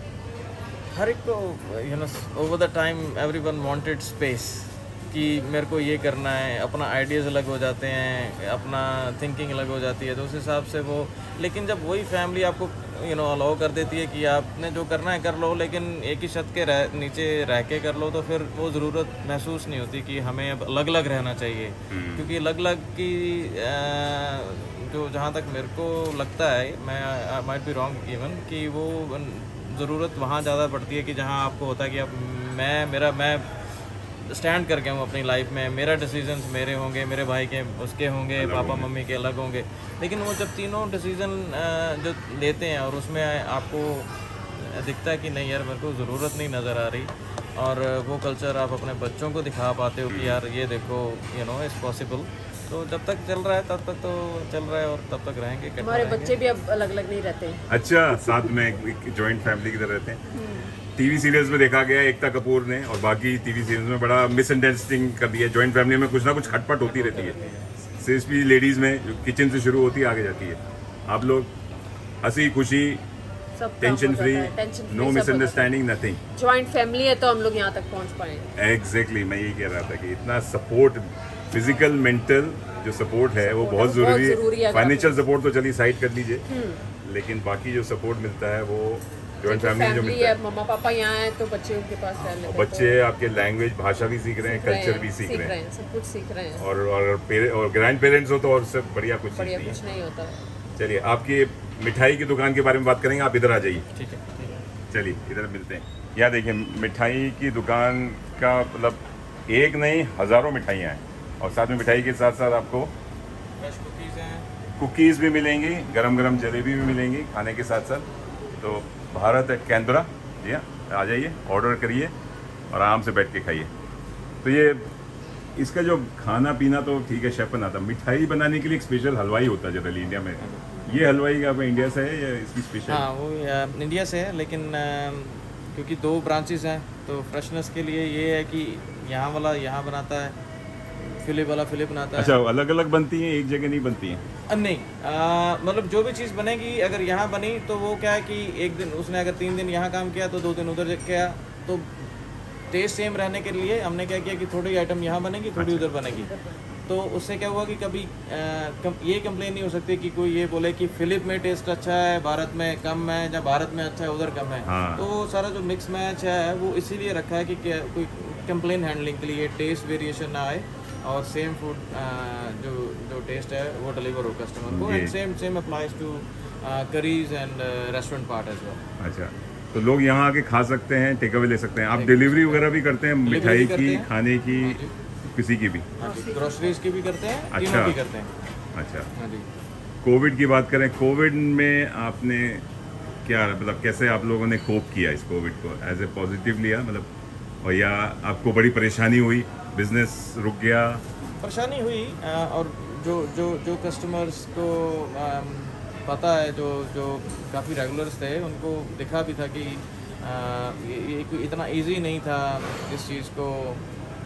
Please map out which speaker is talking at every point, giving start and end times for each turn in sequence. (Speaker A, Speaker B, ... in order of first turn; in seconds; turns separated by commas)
Speaker A: 0.9-33.5, Speaker B: 21.9-22.3, Speaker A: 34.2-56.3, Speaker B: 38.4-38.9, Speaker B: 50.1-50.4, Speaker C: 55.8-57.6, Speaker B: 57.7-60.2, Speaker C: 60.3-60.7, Speaker B: 60.9-67.4, Speaker A: 66.8-67.7, Speaker C: 67.1-67.5, Speaker B: 68.0-71.5, Speaker B: 72.2-73.0, Speaker C: 73.6-75.7, Speaker B: 73.8-76.2, Speaker C: 76.3-78.5, Speaker B: 78.6-86.4, Speaker C: 83.4-85.2, Speaker C: 86.5-86.8, Speaker B: 87.0-90.3, Speaker C: 89.4-93.0, Speaker B: 92.4-95.5, Speaker C: 94.4-96.7, Speaker B: 96.6-99.8, Speaker C: 99.3-100.4, Speaker B: 100.8-103.8, Speaker A: 103.9-104.7, Speaker B: 104.9-112.9, Speaker A: 113.6-114.5, Speaker B: 114.8-118.1, Speaker B: 118.6-122.1, Speaker B: 122.7-123.7, Speaker B: 124.4-124.9, Speaker B: 125.5-133.1, Speaker A: 130.4-131.1, Speaker A: 132.9-140.3, Speaker A: 141.0-142.4, Speaker B: 142.2-144.2, Speaker A: 144.5-152.1, Speaker A: 152.7-156.3, Speaker B: 155.6-155.9, Speaker A: 156.9-178.8, Speaker B: 164.6-165.1, Speaker B: 174.7-175.1, Speaker B: 179.0-185.9, Speaker A: 181.9-182.7, Speaker A: 183.2-184.9, Speaker A: 186.0-188.3, Speaker C: 186.0-186.5, Speaker B: 187.5-188.0, Speaker B: 188.7-189.1, Speaker A: 189.2-189.5, Speaker B: 190.0-192.6, Speaker B: 193.2-197.1, Speaker B: 197.6-201.0, Speaker A: 201.4-213.8